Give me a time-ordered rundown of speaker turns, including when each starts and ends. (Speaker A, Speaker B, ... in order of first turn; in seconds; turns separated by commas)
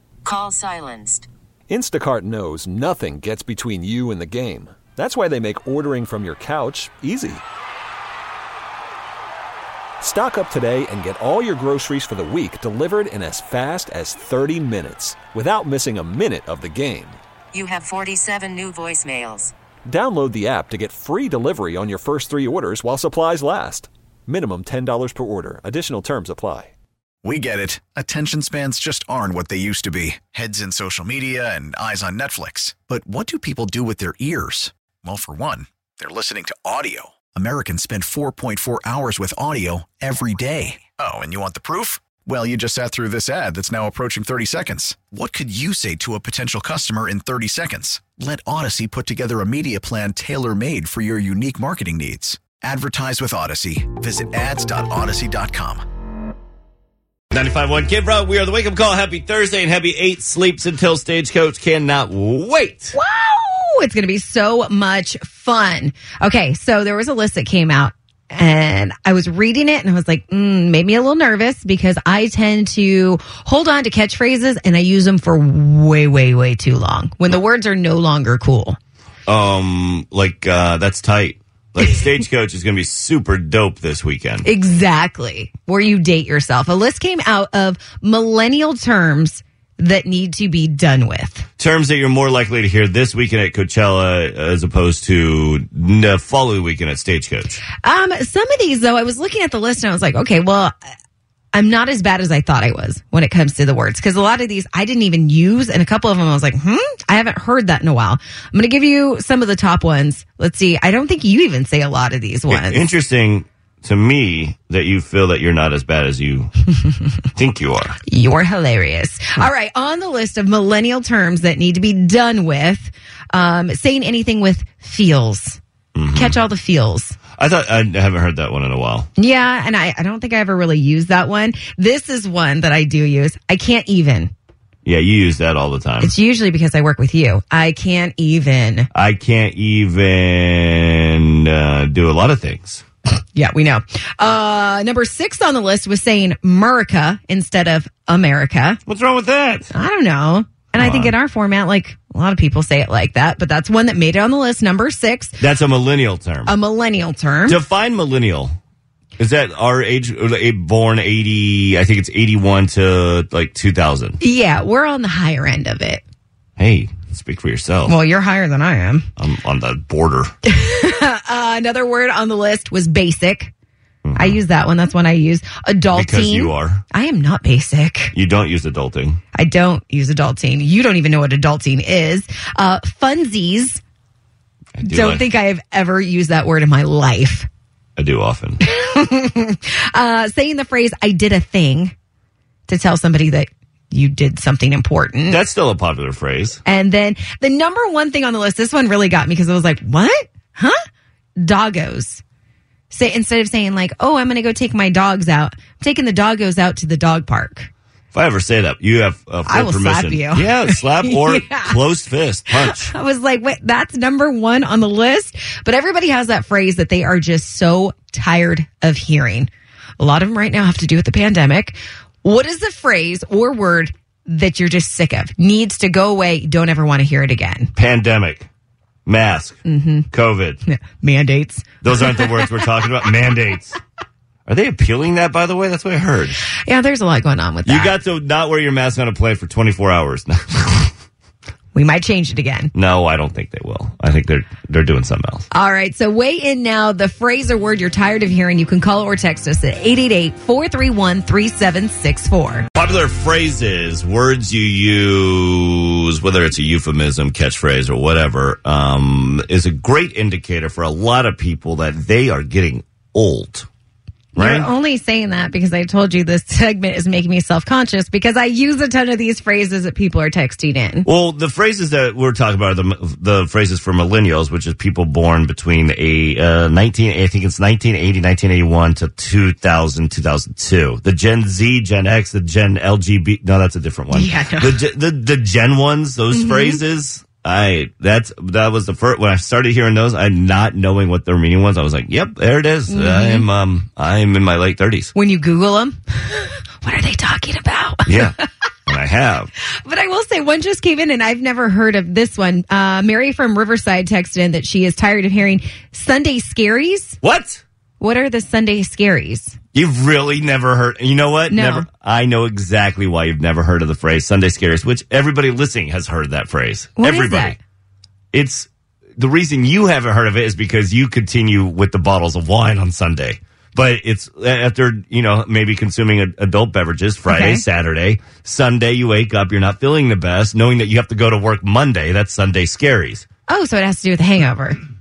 Speaker A: 0.2-1.3, Speaker B: 1.7-7.4, Speaker B: 10.0-17.2, Speaker A: 17.5-19.5, Speaker B: 19.9-26.7, Speaker C: 27.2-55.8, Speaker D: 57.3-63.0, Speaker E: 62.9-78.8, Speaker D: 79.3-84.5, Speaker E: 84.4-91.5, Speaker D: 91.6-97.6, Speaker E: 97.8-100.7, Speaker E: 101.5-112.8, Speaker D: 112.5-116.7, Speaker D: 117.3-118.0, Speaker E: 118.1-125.6, Speaker D: 125.9-126.4, Speaker E: 126.1-127.2, Speaker D: 127.4-129.1, Speaker E: 129.2-134.3, Speaker D: 134.8-136.1, Speaker E: 136.0-138.9, Speaker D: 138.9-142.8, Speaker E: 143.3-148.8, Speaker D: 148.9-149.7, Speaker E: 149.7-155.4, Speaker D: 150.8-151.1, Speaker D: 155.4-156.5, Speaker E: 156.4-157.6, Speaker D: 157.5-158.5, Speaker D: 159.2-164.2, Speaker E: 164.2-166.0, Speaker D: 166.6-167.9, Speaker E: 167.8-169.1, Speaker D: 169.2-170.3, Speaker E: 170.4-173.5, Speaker D: 174.0-174.4, Speaker E: 174.2-178.1, Speaker D: 175.9-176.8, Speaker D: 178.1-179.2, Speaker E: 179.3-183.8, Speaker D: 184.8-185.2, Speaker E: 184.8-187.5, Speaker D: 188.0-188.6, Speaker E: 188.6-191.9, Speaker E: 192.7-195.4, Speaker D: 195.3-196.6, Speaker E: 196.6-200.8, Speaker E: 201.4-202.2, Speaker E: 202.9-207.7, Speaker D: 208.1-212.9, Speaker E: 209.4-211.8, Speaker E: 212.6-227.7, Speaker D: 227.7-228.5, Speaker D: 229.1-230.6, Speaker E: 229.6-230.1, Speaker E: 230.6-232.5, Speaker D: 231.8-233.8, Speaker D: 234.4-236.4, Speaker E: 236.6-237.9, Speaker D: 237.6-240.9, Speaker E: 241.7-242.7, Speaker D: 242.7-245.4, Speaker E: 245.5-252.7, Speaker D: 252.7-263.7, Speaker E: 264.4-271.1, Speaker D: 264.4-264.7, Speaker D: 271.0-295.1, Speaker E: 284.1-284.8, Speaker E: 286.3-286.8, Speaker E: 292.9-293.5, Speaker E: 295.1-298.5, Speaker D: 298.1-299.5, Speaker E: 299.7-307.2, Speaker D: 307.2-307.6, Speaker E: 308.0-309.6, Speaker D: 309.7-317.6, Speaker E: 311.5-311.9, Speaker E: 317.0-317.6, Speaker D: 318.3-333.2, Speaker E: 327.3-327.6, Speaker E: 333.5-334.8